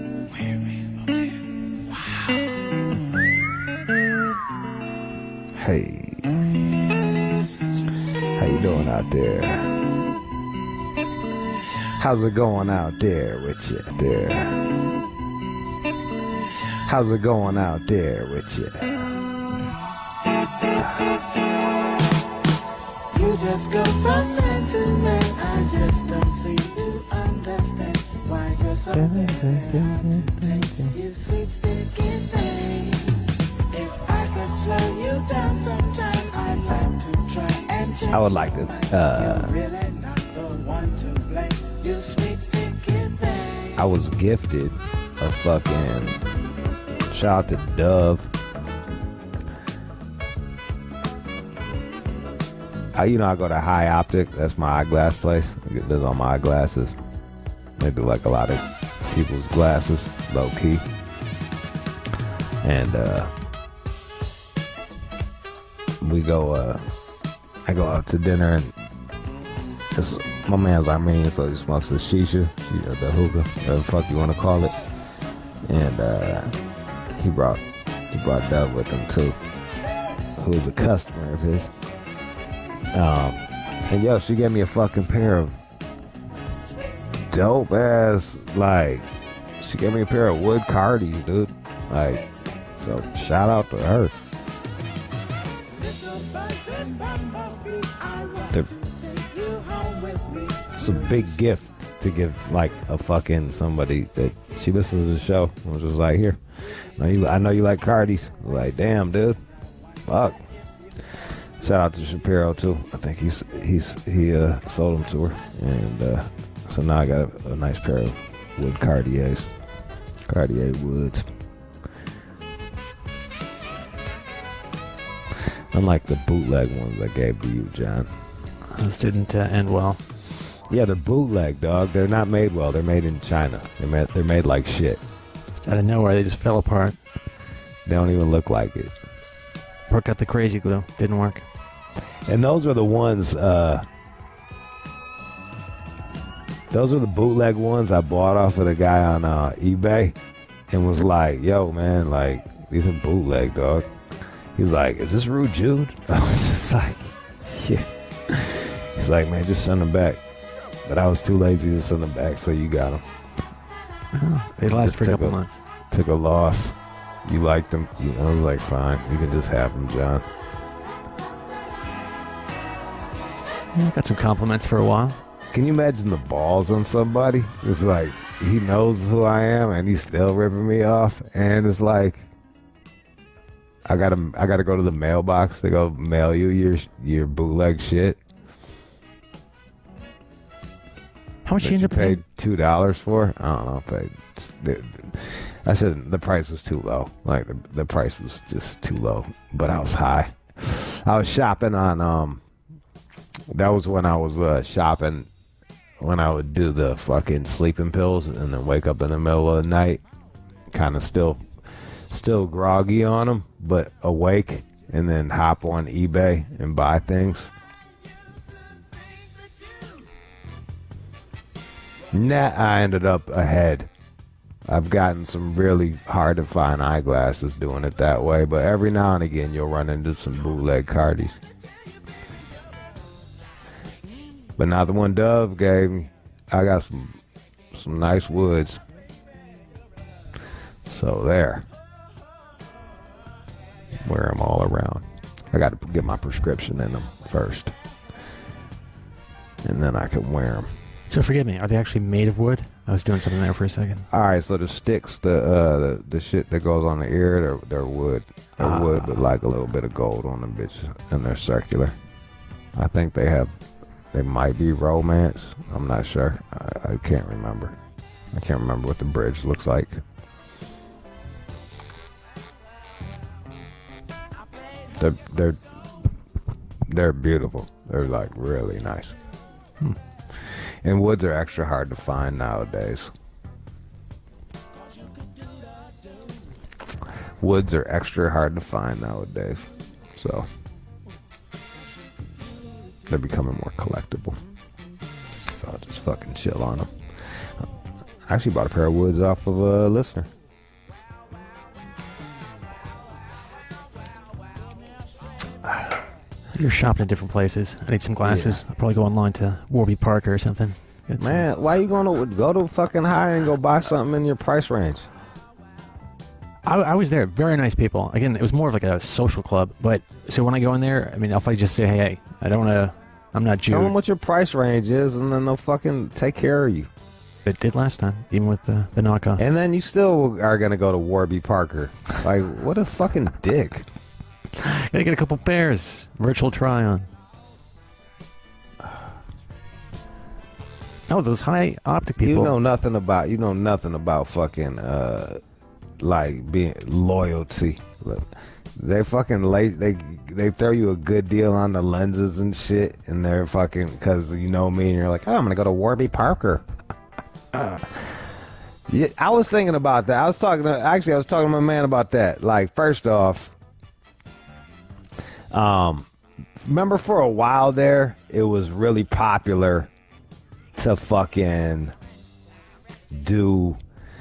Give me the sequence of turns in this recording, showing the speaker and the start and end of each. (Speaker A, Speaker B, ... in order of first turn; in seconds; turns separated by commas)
Speaker A: 0.3-1.1, Speaker B: 5.5-6.2, Speaker B: 8.4-9.8, Speaker B: 12.0-14.7, Speaker B: 16.8-19.1, Speaker A: 23.1-33.1, Speaker B: 28.9-30.9, Speaker A: 33.7-43.9, Speaker B: 38.1-39.5, Speaker B: 43.8-46.2, Speaker B: 47.1-48.3, Speaker B: 52.9-57.0, Speaker B: 57.8-60.9, Speaker B: 62.6-63.3, Speaker B: 66.0-66.9, Speaker B: 67.7-68.8, Speaker B: 69.9-74.8, Speaker B: 75.7-76.6, Speaker B: 77.2-79.4, Speaker B: 80.4-81.7, Speaker B: 82.9-85.6, Speaker B: 87.2-92.2, Speaker B: 92.8-94.2, Speaker A: 95.7-101.2, Speaker B: 100.8-109.4, Speaker B: 110.0-110.4, Speaker B: 111.1-119.5, Speaker B: 120.3-121.3, Speaker B: 125.7-128.1, Speaker C: 128.7-130.0, Speaker B: 130.7-135.0, Speaker C: 135.6-137.0, Speaker B: 137.8-138.9, Speaker C: 139.9-141.4, Speaker B: 142.3-143.8, Speaker B: 146.7-150.2, Speaker B: 150.7-153.9, Speaker B: 154.5-160.2, Speaker B: 160.8-163.0, Speaker C: 164.1-165.6, Speaker B: 164.6-165.4, Speaker B: 165.9-170.2, Speaker C: 173.7-175.2, Speaker B: 175.5-182.2, Speaker B: 183.8-188.2, Speaker C: 191.4-192.2, Speaker B: 191.6-202.4, Speaker B: 203.5-205.3, Speaker B: 206.0-210.0, Speaker B: 210.7-211.4, Speaker B: 212.1-217.5, Speaker B: 222.1-223.9, Speaker B: 224.7-231.4, Speaker B: 234.6-237.2, Speaker B: 237.7-238.8, Speaker B: 240.8-241.7, Speaker B: 244.0-247.7, Speaker B: 249.6-250.7, Speaker C: 251.1-254.1, Speaker B: 254.1-261.9, Speaker C: 258.6-259.1, Speaker B: 262.8-263.5, Speaker B: 264.1-267.8, Speaker B: 268.3-270.0, Speaker B: 274.9-275.6, Speaker B: 276.9-279.2, Speaker B: 280.4-283.1, Speaker B: 287.4-290.5, Speaker B: 293.1-294.4, Speaker B: 295.5-296.9, Speaker B: 298.3-300.3, Speaker C: 306.5-311.4, Speaker B: 308.2-308.6, Speaker B: 311.2-315.1, Speaker C: 316.6-323.9, Speaker B: 323.7-326.9, Speaker C: 327.4-329.5, Speaker B: 329.4-333.9, Speaker C: 334.6-337.1, Speaker C: 341.1-342.5, Speaker B: 342.2-345.4, Speaker B: 346.0-356.6, Speaker B: 358.9-363.5, Speaker B: 365.5-366.1, Speaker B: 366.6-369.9, Speaker B: 370.7-371.9, Speaker B: 373.1-373.8